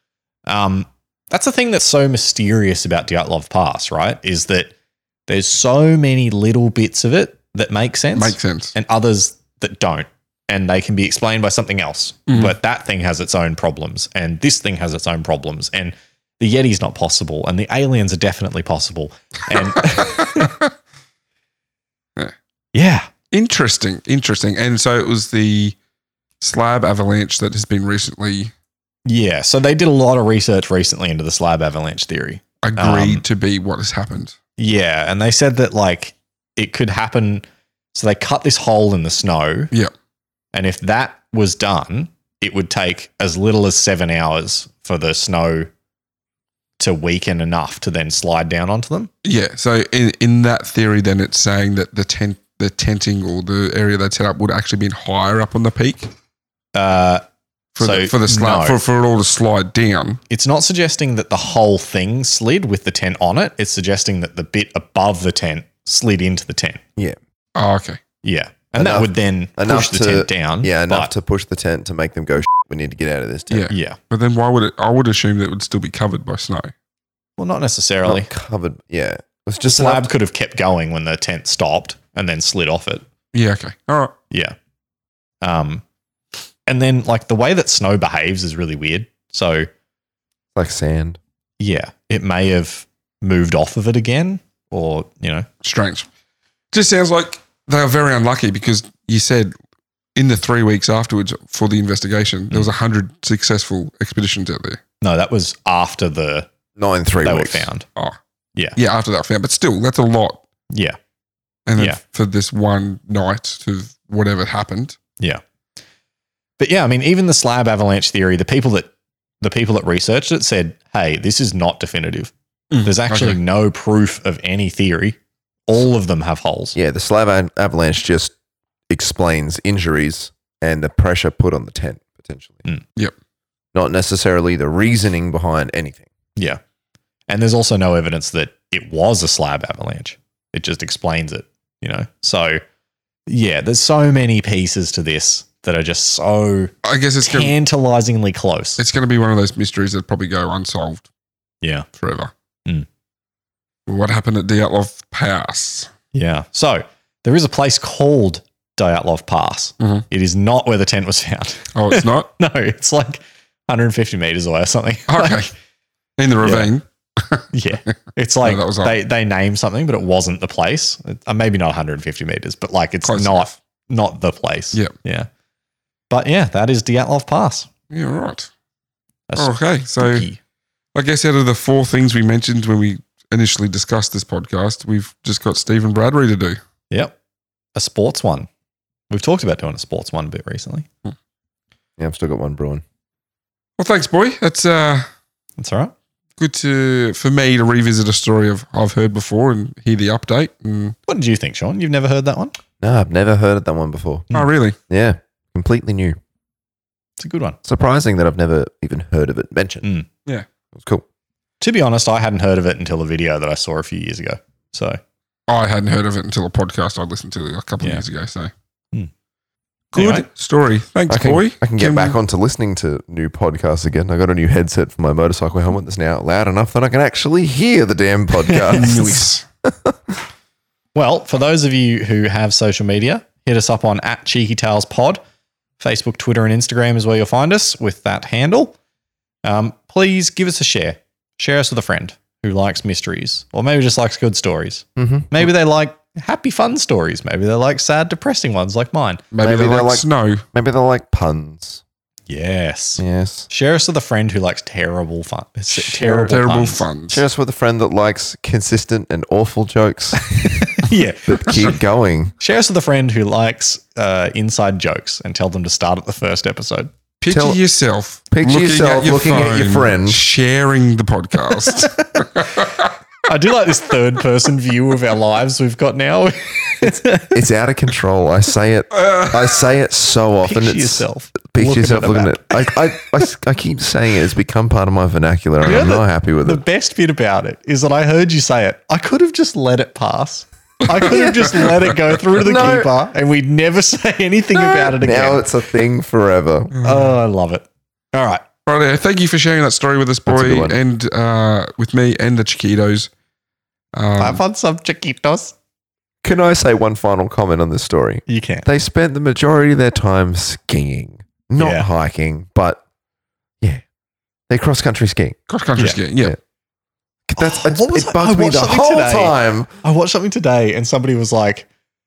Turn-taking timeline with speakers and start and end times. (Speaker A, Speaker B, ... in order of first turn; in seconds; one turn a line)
Speaker A: 0.5-4.7
Speaker A: 5.3-20.6
Speaker B: 8.1-8.7
Speaker B: 12.3-12.6
Speaker B: 19.6-20.7
Speaker A: 22.7-23.1
Speaker B: 23.3-25.7
Speaker B: 26.4-28.5
Speaker A: 29.1-33.2
Speaker B: 32.6-34.4
Speaker A: 34.6-39.7
Speaker A: 40.5-45.7
Speaker A: 46.8-49.1
Speaker B: 49.2-56.1
Speaker A: 56.7-57.2
Speaker B: 57.8-60.2
Speaker A: 57.8-58.8
Speaker A: 60.3-66.8
Speaker B: 67.5-68.0
Speaker A: 68.2-71.1
Speaker C: 68.8-73.7
Speaker B: 73.5-76.7
Speaker A: 73.7-74.0
Speaker A: 77.4-78.3
Speaker C: 78.0-80.1
Speaker A: 79.6-83.0
Speaker B: 83.3-84.1
Speaker A: 84.3-84.5
Speaker A: 85.4-85.8
Speaker A: 86.7-89.7
Speaker C: 90.5-91.2
Speaker A: 91.6-95.5
Speaker B: 95.6-96.1
Speaker B: 96.7-99.5
Speaker B: 100.2-104.8
Speaker A: 105.0-106.5
Speaker C: 106.8-107.7
Speaker A: 107.2-107.8
Speaker B: 108.8-110.4
Speaker A: 110.7-111.0
Speaker B: 111.7-115.0
Speaker A: 116.6-118.9
Speaker A: 119.4-122.3
Speaker B: 122.7-123.4
Speaker A: 122.8-126.8
Speaker C: 126.7-128.3
Speaker C: 128.9-132.6
Speaker C: 133.7-136.1
Speaker A: 137.3-142.6
Speaker A: 143.3-148.8
Speaker B: 146.8-147.5
Speaker B: 148.8-151.1
Speaker A: 151.6-151.9
Speaker B: 152.0-152.3
Speaker B: 153.9-155.9
Speaker A: 156.1-165.5
Speaker B: 159.8-160.0
Speaker B: 161.7-162.3
Speaker B: 165.1-165.5
Speaker B: 166.2-167.5
Speaker A: 166.4-166.7
Speaker A: 167.5-175.3
Speaker B: 168.4-168.9
Speaker B: 173.1-173.5
Speaker A: 176.1-177.7
Speaker B: 177.9-178.5
Speaker A: 179.3-180.4
Speaker B: 179.4-180.2
Speaker B: 180.9-186.6
Speaker A: 187.8-188.5
Speaker A: 189.1-190.9
Speaker C: 192.0-192.8
Speaker B: 193.8-195.1
Speaker A: 195.6-195.9
Speaker B: 196.4-200.9
Speaker A: 201.1-202.5
Speaker C: 202.8-204.3
Speaker B: 204.3-204.8
Speaker C: 204.9-206.2
Speaker A: 207.2-207.6
Speaker C: 207.6-209.9
Speaker C: 210.7-211.0
Speaker A: 211.6-215.0
Speaker B: 215.5-218.5
Speaker B: 219.9-222.2
Speaker A: 219.9-220.2
Speaker C: 221.1-230.2
Speaker A: 228.4-229.2
Speaker B: 228.7-229.4
Speaker A: 230.9-235.2
Speaker A: 235.8-238.8
Speaker A: 239.4-249.2
Speaker C: 244.9-245.4
Speaker B: 249.3-250.4
Speaker C: 249.4-251.8
Speaker A: 252.3-256.8
Speaker C: 253.0-253.5
Speaker B: 255.8-257.2
Speaker C: 257.1-260.3
Speaker A: 260.2-261.8
Speaker C: 261.3-262.3
Speaker A: 262.4-266.9
Speaker B: 267.2-272.9
Speaker C: 267.3-267.6
Speaker C: 268.3-270.2
Speaker A: 271.6-272.5
Speaker A: 273.2-277.4
Speaker C: 277.2-286.6
Speaker B: 278.9-279.4
Speaker A: 280.4-283.0
Speaker A: 285.6-295.4
Speaker B: 290.9-291.9
Speaker C: 292.4-292.9
Speaker C: 294.5-296.7
Speaker B: 296.7-297.2
Speaker A: 296.8-298.4
Speaker B: 298.6-303.1
Speaker C: 300.3-300.8
Speaker B: 303.9-304.4
Speaker A: 304.2-305.5
Speaker C: 306.2-312.8
Speaker A: 308.3-308.7
Speaker A: 311.6-311.9
Speaker C: 314.5-315.4
Speaker B: 315.5-316.4
Speaker C: 317.3-319.7
Speaker A: 317.4-321.7